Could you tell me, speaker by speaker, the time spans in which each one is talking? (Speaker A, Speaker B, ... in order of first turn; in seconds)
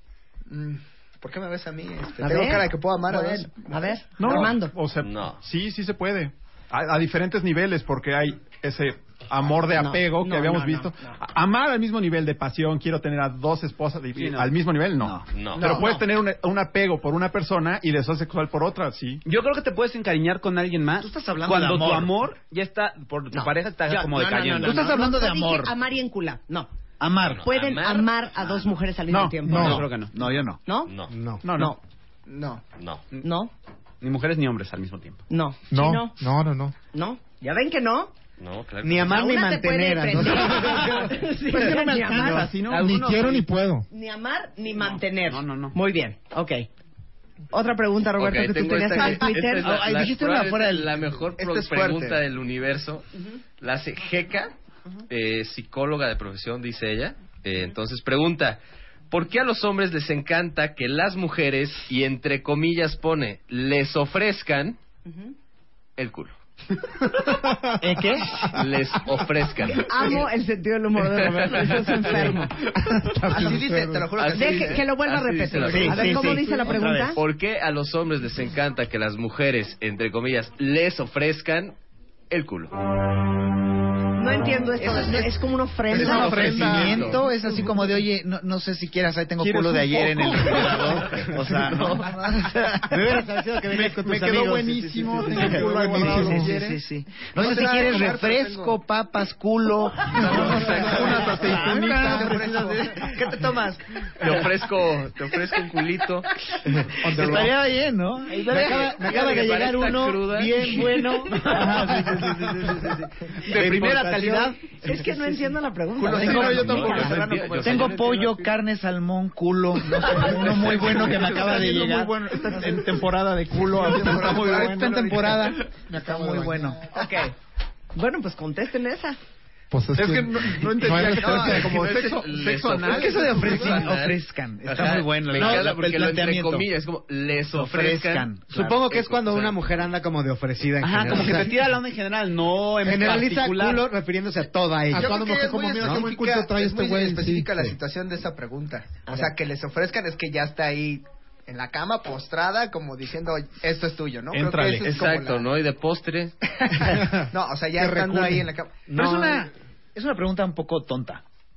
Speaker A: 0.5-4.4, 15.6-15.8, 32.3-32.6, 51.4-52.2, 73.3-74.9, 97.3-98.8, 100.2-103.8, 123.6-125.5, 131.2-131.6, 144.9-155.5, 156.6-159.4
Speaker B: 2.2-4.7, 9.7-11.1, 15.6-16.0, 23.3-26.7, 27.4-29.9, 30.6-30.9, 31.5-31.8, 33.2-33.5, 35.3-36.2, 36.9-38.1, 39.0-42.5, 43.9-46.7, 47.5-49.7, 69.7-72.6, 74.3-77.2, 84.2-87.1, 110.6-111.6, 114.7-117.2, 126.9-127.3, 127.9-129.2
Speaker C: 4.2-19.2, 29.1-29.8, 31.4-31.8, 40.7-41.0, 41.5-43.2, 85.9-87.2, 89.4-91.0, 93.7-96.8, 100.2-102.6, 113.5-114.2, 116.0-118.3, 120.0-125.7, 129.9-133.8, 154.3-154.9
Speaker D: 5.0-5.4, 15.3-15.8, 27.2-28.7, 30.9-31.1, 32.8-33.0, 38.4-39.2, 48.2-53.1, 53.6-54.5, 55.1-58.6, 59.1-64.8, 66.0-66.4, 68.5-70.2, 71.1-72.3, 74.2-76.4, 77.1-81.8, 82.3-82.8, 86.0-87.2, 100.2-101.3, 104.2-106.3, 108.5-110.9, 116.2-118.5, 131.4-139.9, 141.0-141.3, 154.8-156.3
Speaker E: 14.2-14.5, 19.2-25.0, 29.6-30.1, 34.0-35.2, 42.1-43.5, 45.3-45.8, 111.8-112.5, 113.5-114.5, 140.8-143.9
Speaker F: 15.0-15.3, 21.0-22.2, 24.6-25.8, 27.0-27.5, 29.8-30.6, 49.6-51.0, 67.8-68.5, 75.6-77.2, 85.9-93.2, 95.0-103.2, 107.0-114.5, 116.1-122.9, 124.0-126.8, 132.8-136.7, 137.5-138.8, 158.9-161.2
Speaker G: 29.4-29.9, 35.7-36.7, 42.7-43.9, 67.4-67.8, 72.8-74.2, 95.2-96.5, 107.1-107.5, 125.7-127.1, 129.7-131.8, 144.9-147.8, 156.9-158.5
Speaker H: 31.1-31.4, 38.8-41.1, 91.1-91.4, 92.9-95.6, 108.7-110.2, 138.5-141.7, 142.8-145.2, 158.9-159.3